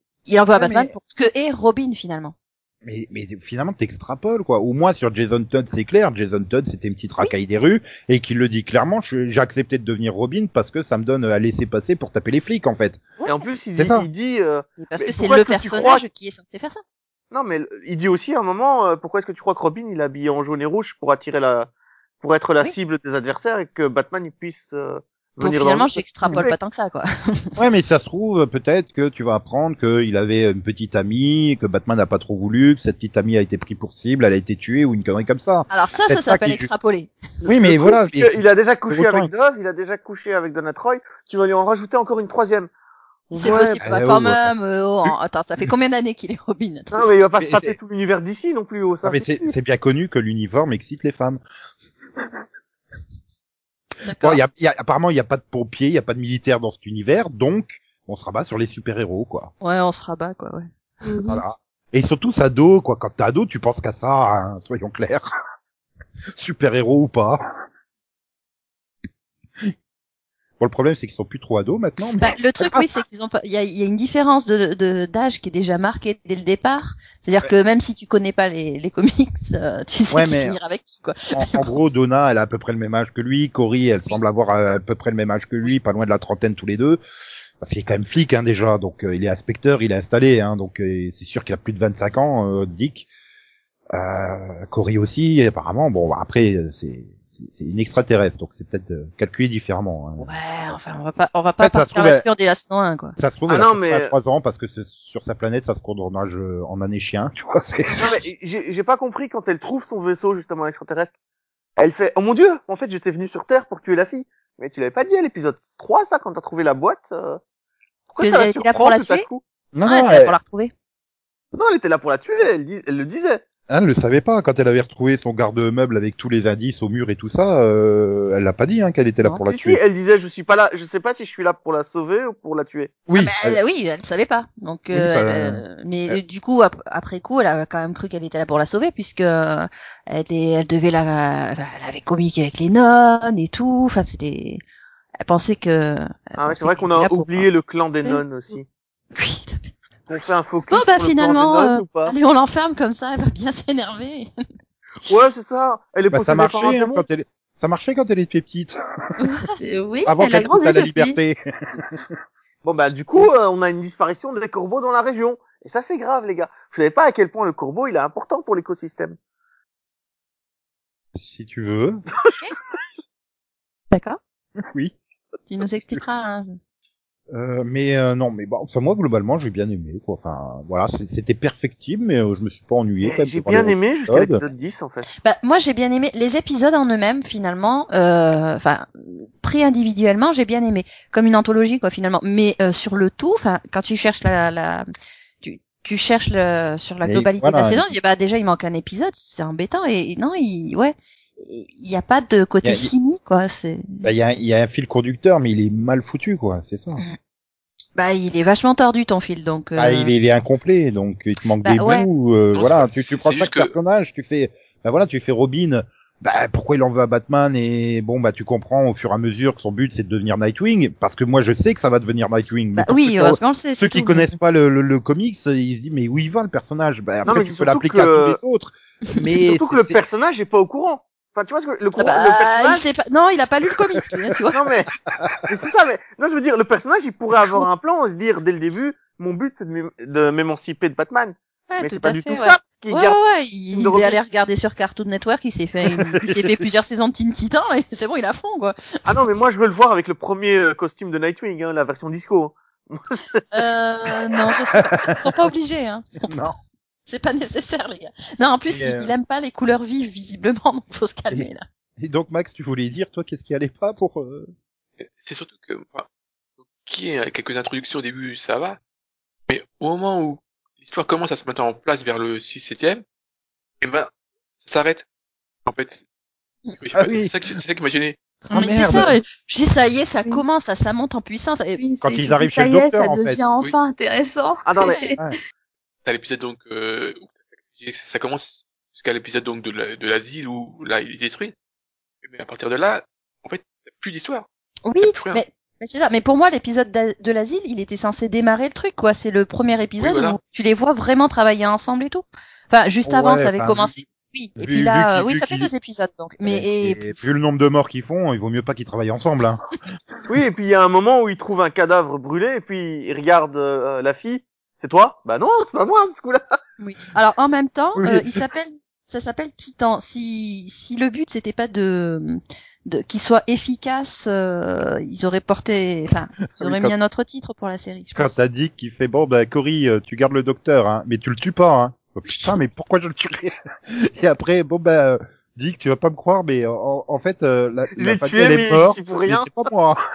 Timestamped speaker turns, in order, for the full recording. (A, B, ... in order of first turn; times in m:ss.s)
0:00.2-0:02.3 A
0:00.5-0:00.9 B
0:02.8-0:13.0 B
0:13.2-0:13.4 A
0:13.3-0:16.0 C
0:13.8-0:14.1 B
0:14.8-0:16.8 A
0:17.3-0:26.5 C
0:25.4-0:27.6 A
0:27.6-0:36.7 B
0:35.7-0:37.1 A
0:37.4-0:42.7 C
0:37.5-0:39.3 B
0:43.3-0:43.8 C
0:43.3-0:47.1 A
0:43.8-0:44.5 B
0:46.9-0:49.5 C
0:47.4-0:47.8 B
0:49.0-0:51.4 B
0:54.0-0:54.4 A
0:54.2-0:59.5 B
0:59.6-1:00.7 A
1:01.0-1:01.4 D
1:01.3-1:05.3 B
1:06.3-1:07.5 B
1:10.6-1:12.9 B
1:12.2-1:21.8 A
1:20.1-1:20.6 B
1:21.3-1:27.0 B
1:27.6-1:33.1 B
1:33.9-1:40.3 B
1:40.2-1:43.2 A
1:41.6-1:42.2 B
1:43.2-1:48.1 B
1:43.5-1:44.1 C
1:48.0-1:51.1 C
1:51.8-1:57.4 C
1:58.1-1:59.4 C
1:58.2-1:59.3 A
1:59.7-2:00.4 B
1:59.8-2:00.7 A
2:01.5-2:03.4 C
2:03.7-2:09.8 B
2:09.5-2:12.9 C
2:13.0-2:13.6 B
2:13.2-2:24.6 A
2:14.9-2:16.2 B
2:25.2-2:27.5 A
2:26.4-2:28.6 C
2:29.1-2:29.7 A
2:30.1-2:32.1 C
2:30.7-2:34.3 A
2:35.0-2:37.0 C
2:36.1-2:38.7 B
2:39.5-2:41.2 D
2:40.0-2:42.0 B
2:42.6-2:49.2 C
2:51.2-2:52.0 B
2:53.9-2:54.2 A
2:54.6-2:55.0 B
2:55.5-2:56.5 A
2:57.3-3:04.4 B
3:03.0-3:05.1 C
3:05.2-3:14.8 A
3:15.4-3:24.1 A
3:17.0-3:17.9 B
3:22.6-3:22.9 B
3:24.0-3:27.0 B
3:28.0-3:30.1 A
3:29.8-3:50.0 B
3:31.6-3:32.1 A
3:32.5-3:33.7 E
3:42.7-3:44.3 A
3:47.3-3:48.4 C
3:49.4-3:52.8 C
3:52.0-3:54.6 A
3:54.5-3:54.9 C
3:55.1-3:55.4 B
3:55.5-4:03.2 C
4:01.7-4:09.0 A
4:03.7-4:04.2 C
4:09.1-4:13.4 C
4:13.5-4:16.3 A
4:16.2-4:16.5 B
4:17.1-4:21.6 A
4:18.7-4:19.1 B
4:22.0-4:24.5 B
4:25.0-4:26.1 E
4:26.6-4:28.8 E
4:29.5-4:33.0 E
4:33.8-4:35.0 E
4:35.6-4:36.0 E
4:36.8-4:38.2 E
4:37.0-4:37.4 B
4:38.5-4:39.1 B
4:38.5-4:41.8 A
4:41.8-4:45.4 D
4:42.0-4:43.4 B
4:44.6-4:45.0 C
4:44.8-4:45.1 A
4:46.0-4:51.5 E
4:52.2-4:54.5 E
4:54.8-5:07.3 A
4:55.0-4:55.4 E
5:00.0-5:00.4 E
5:03.0-5:04.0 B
5:04.6-5:05.7 B
5:06.4-5:09.6 B
5:10.3-5:16.6 C
5:16.8-5:28.3 A
5:18.0-5:18.4 B
5:26.6-5:26.9 B
5:28.1-5:40.0 B
5:32.3-5:32.6 A
5:38.0-5:39.5 C